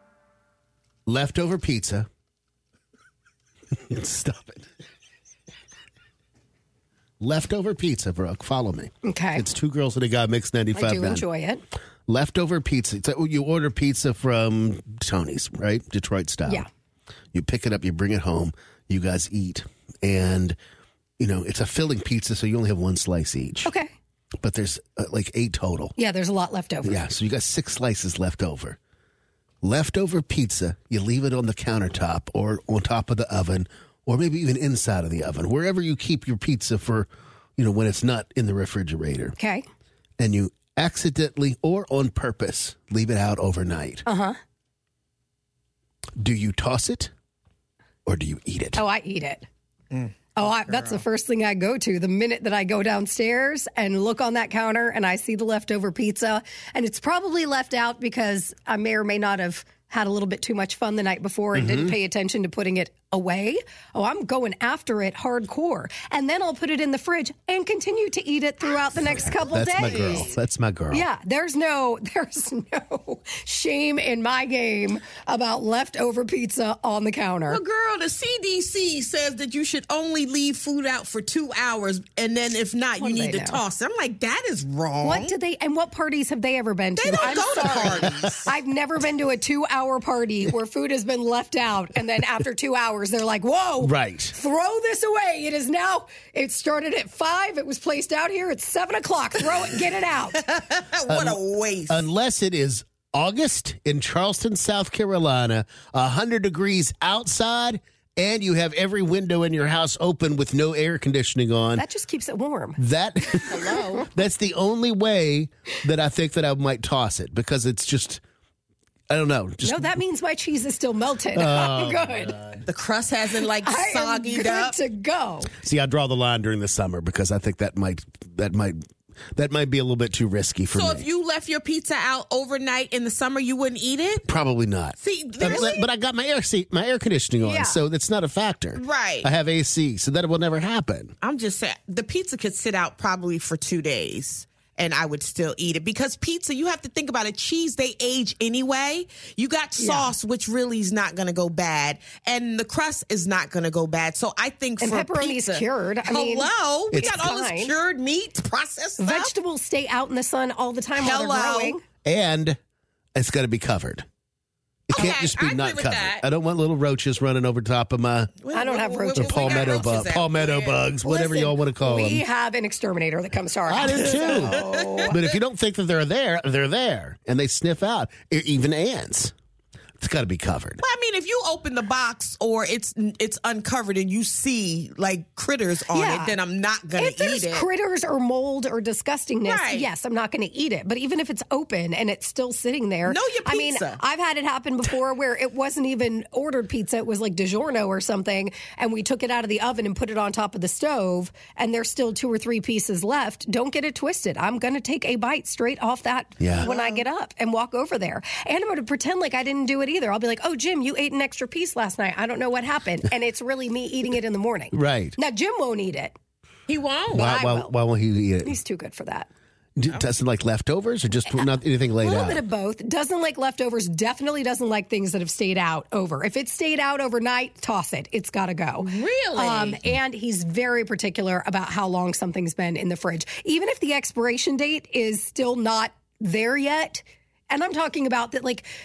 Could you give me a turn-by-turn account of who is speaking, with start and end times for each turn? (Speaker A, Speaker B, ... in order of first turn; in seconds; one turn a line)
Speaker A: 1.1-2.1
Speaker A: 3.8-4.6
Speaker A: 7.2-11.2
Speaker B: 9.0-9.4
Speaker B: 10.7-11.6
Speaker A: 12.1-16.6
Speaker A: 17.3-20.6
Speaker A: 21.2-23.7
Speaker B: 23.6-23.9
Speaker A: 24.4-25.9
Speaker B: 25.9-27.0
Speaker A: 26.8-28.8
Speaker A: 29.6-39.4
Speaker B: 39.4-39.6
Speaker A: 40.2-44.0
Speaker B: 44.0-44.4
Speaker A: 46.2-47.1
Speaker A: 48.0-48.8
Speaker B: 48.8-49.5
Speaker B: 50.3-70.3
Speaker A: 61.5-61.9
Speaker C: 69.3-70.3
Speaker A: 69.4-71.0
Speaker B: 70.9-77.6
Speaker C: 77.5-85.3
Speaker B: 83.0-83.6
Speaker B: 85.0-100.4
Speaker C: 87.0-88.5
Speaker A: 93.8-94.3
Speaker C: 100.3-102.0
Speaker A: 101.1-111.8
Speaker B: 111.7-112.8
Speaker A: 112.8-118.2
Speaker B: 113.5-114.0
Speaker A: 119.1-120.0
Speaker B: 119.6-122.4
Speaker A: 121.3-122.6
Speaker C: 122.7-124.8
Speaker B: 123.3-125.5
Speaker A: 125.6-128.8
Speaker A: 129.3-131.1
Speaker C: 130.7-134.2
Speaker A: 134.3-141.1
Speaker C: 135.0-135.8
Speaker B: 135.5-135.8
Speaker B: 137.4-137.8
Speaker C: 138.7-139.3
Speaker C: 141.2-159.3
Speaker B: 149.8-150.1
Speaker B: 154.8-157.7
Speaker A: 156.9-157.3
Speaker B: 159.0-161.8
Speaker C: 161.0-161.8
Speaker A: 162.0-162.6
Speaker A: 163.1-164.0
Speaker A: 164.9-168.3
Speaker C: 164.9-166.2
Speaker C: 168.4-170.8
Speaker B: 168.5-169.9
Speaker A: 169.1-172.2
Speaker B: 171.0-175.1
Speaker A: 173.7-179.3
Speaker C: 174.0-175.1
Speaker A: 180.0-180.8
Speaker C: 180.8-187.7
Speaker B: 185.9-186.4
Speaker B: 186.9-216.2
Speaker C: 189.4-189.9
Speaker C: 193.1-194.0
Speaker A: 206.4-206.7
Speaker C: 206.5-207.0
Speaker A: 214.7-215.2
Speaker C: 216.7-217.3
Speaker A: 217.1-218.6
Speaker B: 217.1-217.8
Speaker B: 218.4-219.3
Speaker A: 219.8-222.4
Speaker B: 221.3-238.7
Speaker C: 228.8-229.8